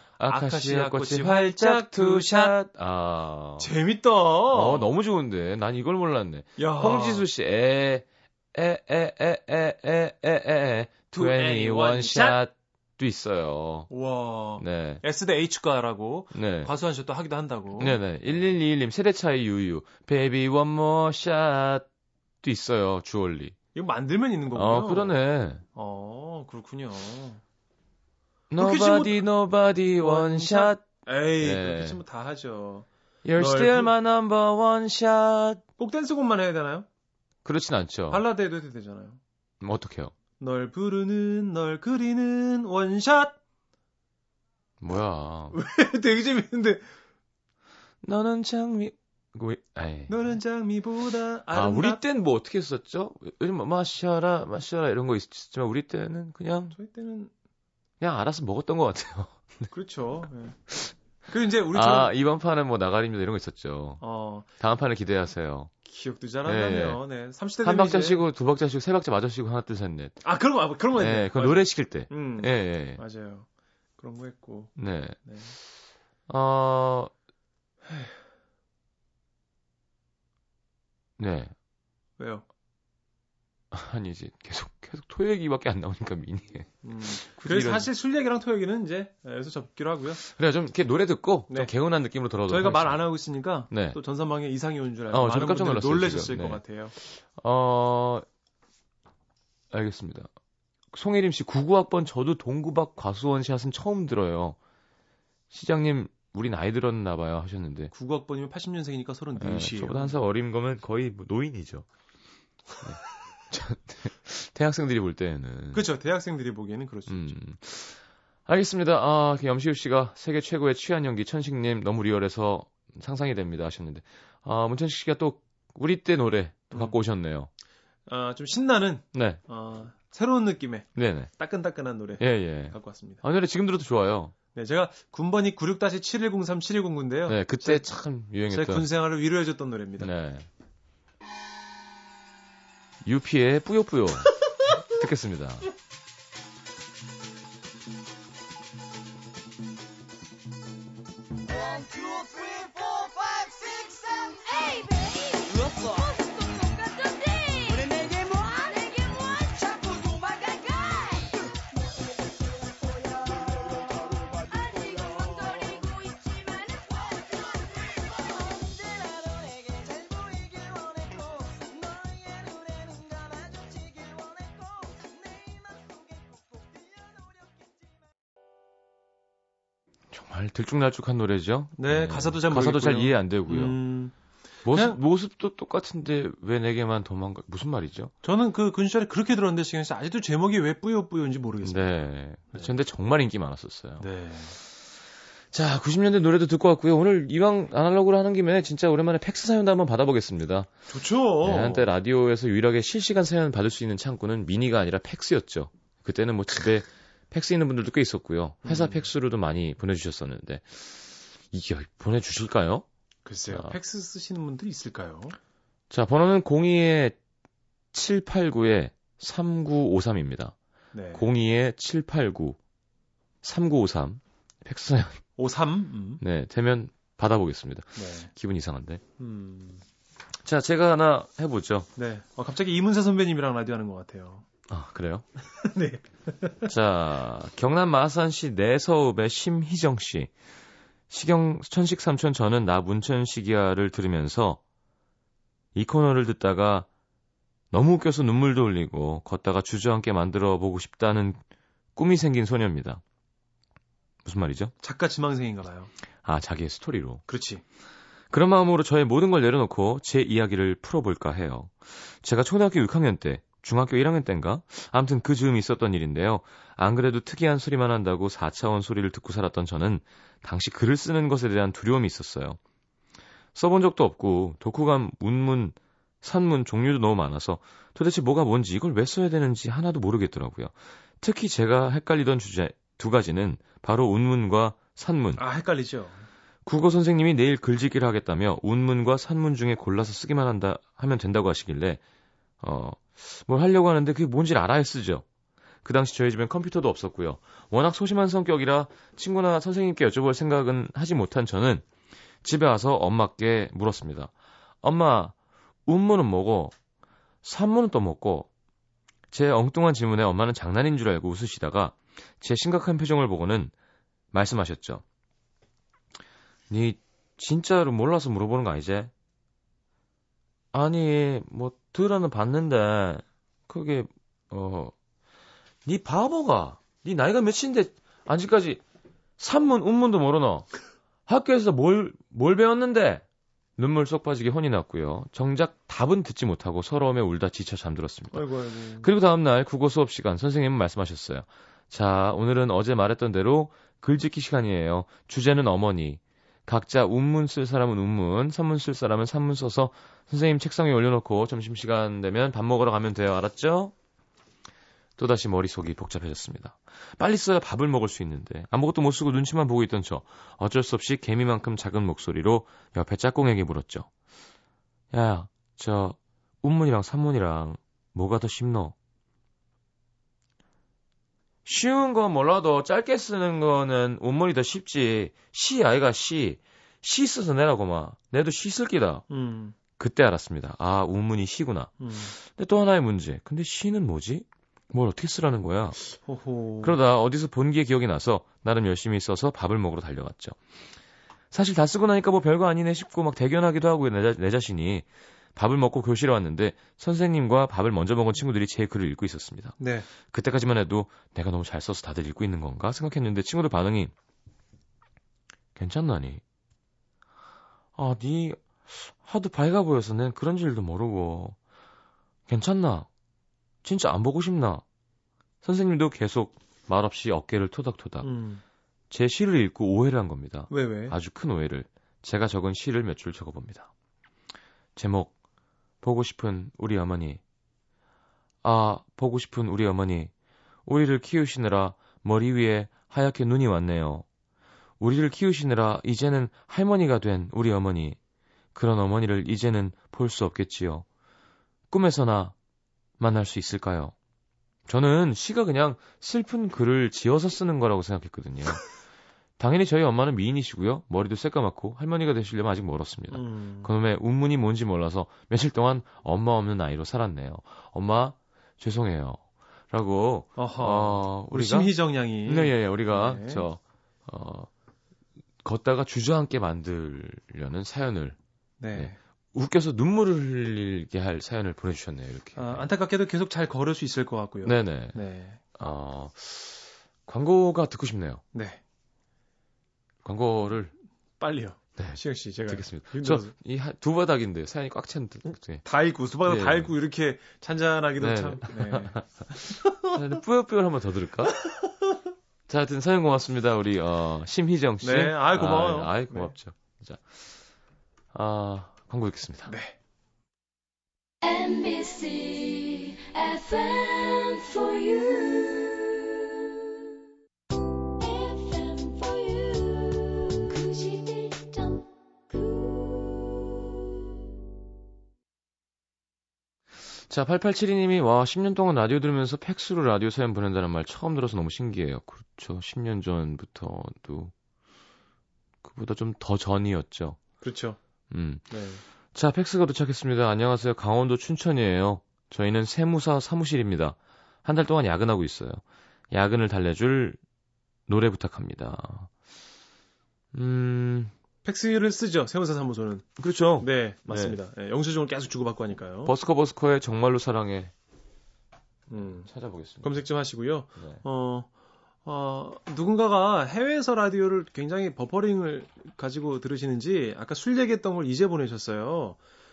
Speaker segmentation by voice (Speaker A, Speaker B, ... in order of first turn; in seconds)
Speaker A: 0.2-3.7, 4.5-13.9, 14.6-15.0, 16.3-16.7, 17.8-21.9, 22.4-23.6, 24.5-25.6, 28.5-30.9, 31.4-32.0, 33.2-35.6, 37.5-38.2, 39.6-40.1, 44.8-45.6, 48.0-50.2, 51.5-56.8, 58.0-59.7, 61.7-64.0, 64.6-65.7, 66.5-67.0, 67.6-70.2, 70.9-73.0, 74.8-75.2, 76.3-77.1, 81.2-81.5, 83.7-87.9, 90.2-93.0, 93.7-94.0, 95.1-98.2, 99.7-100.3, 100.9-104.6, 105.5-107.9, 109.4-111.9, 112.8-115.9, 117.1-127.5, 129.1-129.4, 130.9-131.3, 132.2-134.3, 137.3-138.9, 140.0-140.5, 143.1-145.7, 180.1-183.8, 184.7-188.1, 191.6-194.1, 195.5-200.7, 201.4-212.9, 213.5-213.8, 215.9-217.2, 217.9-220.6, 221.1-222.6, 223.4-225.2, 226.2-229.0, 230.4-231.9, 234.7-235.2, 236.7-240.3, 241.1-244.6, 245.8-246.9, 247.7-251.4, 252.0-253.0, 254.2-254.7, 256.2-257.2, 258.3-272.6, 273.6-285.4, 286.6-292.0, 292.6-295.2, 295.8-301.9, 302.4-305.4, 305.9-306.8, 307.4-308.5, 309.3-313.7, 314.3-315.0, 316.7-319.1, 320.7-324.9, 325.9-328.8, 329.4-330.7, 331.3-333.2, 333.8-338.5, 339.0-353.9, 355.2-364.1, 365.1-368.9, 371.6-379.2, 380.0-386.0, 386.8-390.6, 391.5-404.1, 405.8-406.4, 408.0-411.6, 412.5-413.1, 413.8-414.8, 415.6-418.3, 419.1-423.9, 425.0-425.3, 426.0-427.4, 428.6-430.3, 430.9-434.2, 435.0-438.2, 438.8-441.1, 441.9-442.6, 443.2-444.1, 444.9-448.9, 449.6-459.4, 459.9-464.7, 465.6-468.4, 469.0-472.9, 474.6-475.2, 475.8-478.4, 480.2-480.9, 482.0-485.8, 486.4-486.9, 488.2-491.6, 492.7-497.2, 498.3-499.7, 517.3-524.5, 525.8-527.4, 528.3-528.8, 529.3-537.4, 538.1-539.3, 540.5-541.3, 543.4-544.6, 546.2-547.9, 549.2-550.2
Speaker B: 0.2-2.6, 3.6-4.9, 6.6-7.3, 11.1-12.4, 13.9-18.0, 23.8-25.2, 25.8-27.4, 28.6-29.2, 30.0-33.9, 35.8-36.9, 38.1-39.2, 40.4-43.4, 45.5-46.8, 50.1-52.0, 56.7-57.3, 59.7-60.6, 61.3-62.1, 64.0-64.5, 65.8-68.2, 70.2-73.5, 74.0-75.5, 77.9-78.1, 82.2-82.4, 86.8-90.2, 92.5-97.0, 107.9-110.2, 115.7-117.4, 126.7-127.0, 128.1-133.2, 134.5-137.8, 138.5-140.1, 181.8-184.1, 184.7-185.0, 188.2-191.9, 194.0-194.6, 200.9-201.9, 208.6-209.1, 213.2-215.4, 220.9-221.3, 225.4-226.2, 227.9-228.3, 229.2-229.8, 232.0-234.4, 235.6-236.7, 254.8-255.9, 257.3-257.6, 285.4-286.2, 338.3-339.1, 379.3-379.8, 382.0-382.3, 386.1-387.0, 399.8-400.1, 418.2-418.6, 420.7-421.2, 453.3-453.9, 460.6-463.7, 468.8-469.2, 472.6-475.6, 478.5-478.8, 481.4-483.5, 485.8-490.2, 491.6-492.1, 495.0-496.6, 499.7-499.9, 527.6-528.0, 528.7-529.0, 541.6-543.3, 543.8-546.3, 549.1-549.5, 550.0-551.7, 552.2-559.4
Speaker C: 151.5-161.5, 163.1-177.7, 501.4-506.7, 508.2-513.9